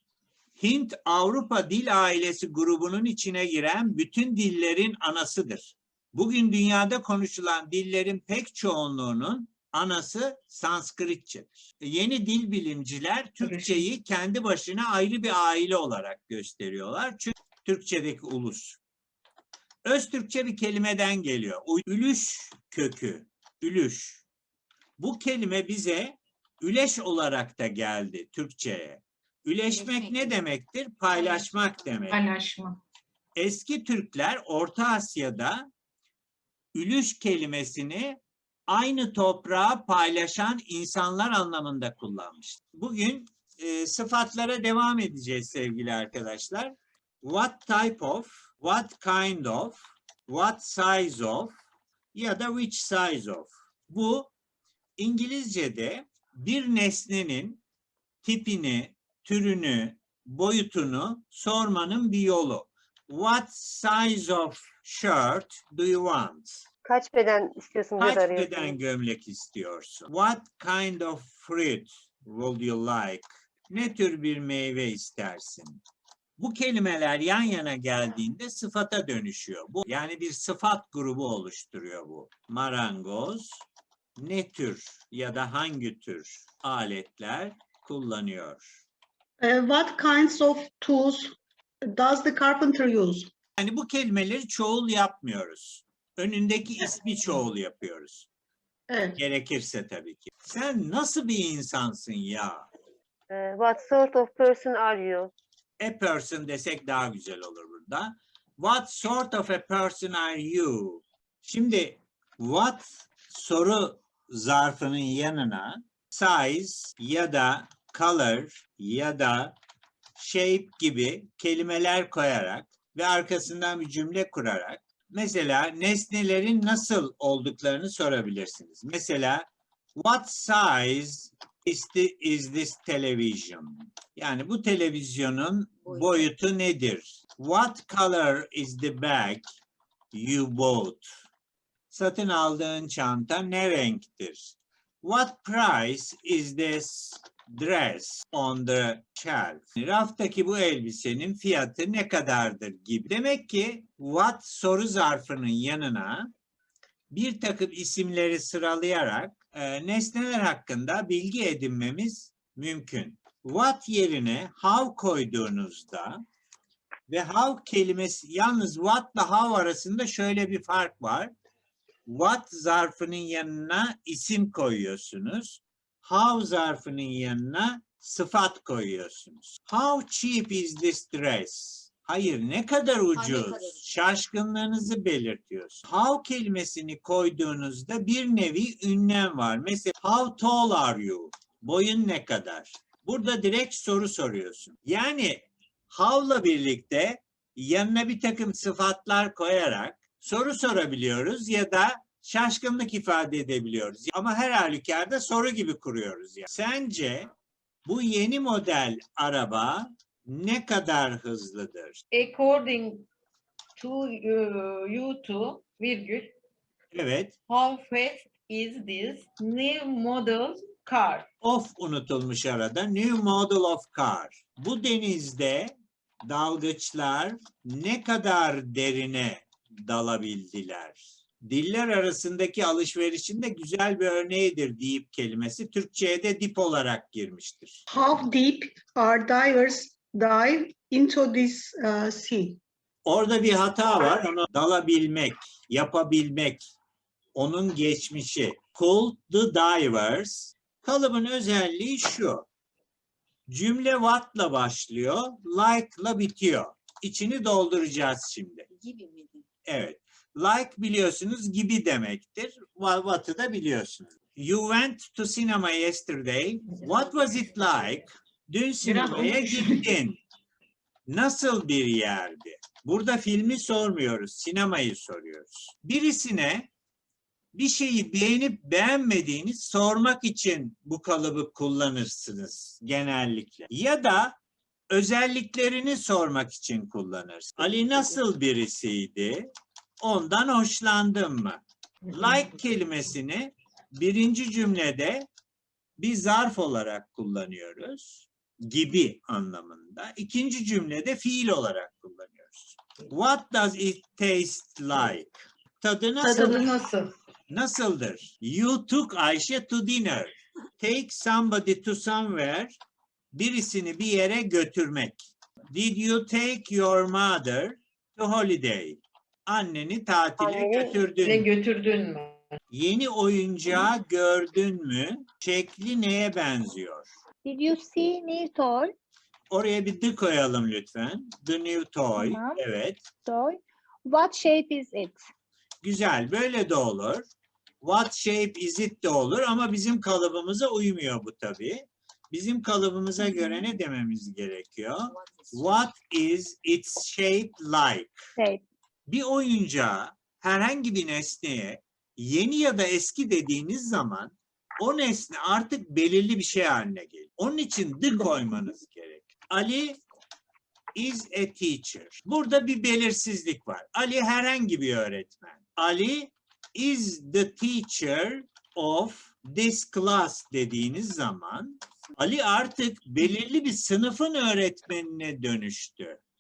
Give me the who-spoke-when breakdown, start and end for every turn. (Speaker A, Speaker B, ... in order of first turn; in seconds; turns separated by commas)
Speaker A: 0.6-18.8, Speaker B: 13.4-13.9, Speaker A: 19.8-24.2, Speaker A: 25.0-32.2, Speaker C: 29.7-30.4, Speaker C: 31.1-32.0, Speaker B: 32.1-32.8, Speaker A: 33.4-35.7, Speaker A: 36.7-51.5, Speaker A: 52.1-54.3, Speaker A: 55.0-57.6, Speaker A: 58.2-66.7, Speaker D: 66.8-68.8, Speaker A: 68.0-75.8, Speaker A: 76.4-83.6, Speaker A: 84.2-88.8, Speaker E: 89.4-93.3, Speaker A: 93.6-98.3, Speaker E: 98.9-99.2, Speaker A: 99.2-102.7, Speaker D: 103.3-105.3, Speaker A: 105.8-119.5, Speaker A: 120.2-139.4, Speaker C: 135.8-136.3, Speaker A: 140.1-141.1, Speaker A: 141.9-156.3, Speaker A: 157.1-166.2, Speaker A: 167.1-171.3, Speaker A: 172.1-207.3, Speaker C: 183.1-183.9, Speaker A: 207.8-212.0, Speaker B: 212.1-213.1, Speaker B: 213.8-216.3, Speaker A: 216.9-217.4, Speaker B: 217.5-221.3, Speaker A: 221.4-225.8, Speaker A: 226.2-237.8, Speaker E: 237.9-242.6, Speaker A: 243.1-246.8, Speaker A: 247.3-252.4, Speaker A: 253.5-258.7, Speaker C: 258.7-259.5, Speaker A: 259.7-270.2, Speaker C: 266.7-268.1, Speaker B: 268.8-269.9, Speaker A: 271.1-276.7, Speaker A: 277.5-284.4, Speaker A: 284.9-289.5, Speaker A: 290.0-295.3, Speaker A: 296.0-306.7, Speaker B: 306.2-307.1, Speaker A: 307.5-312.8, Speaker A: 313.3-321.5, Speaker D: 320.4-321.0, Speaker B: 321.2-322.5, Speaker A: 322.7-327.1, Speaker F: 327.4-328.9, Speaker A: 329.5-333.0, Speaker F: 332.1-332.6, Speaker F: 333.2-335.3, Speaker A: 335.8-337.2, Speaker A: 337.8-348.2, Speaker C: 345.1-345.9, Speaker F: 348.4-348.6, Speaker A: 349.1-360.0, Speaker A: 360.9-376.2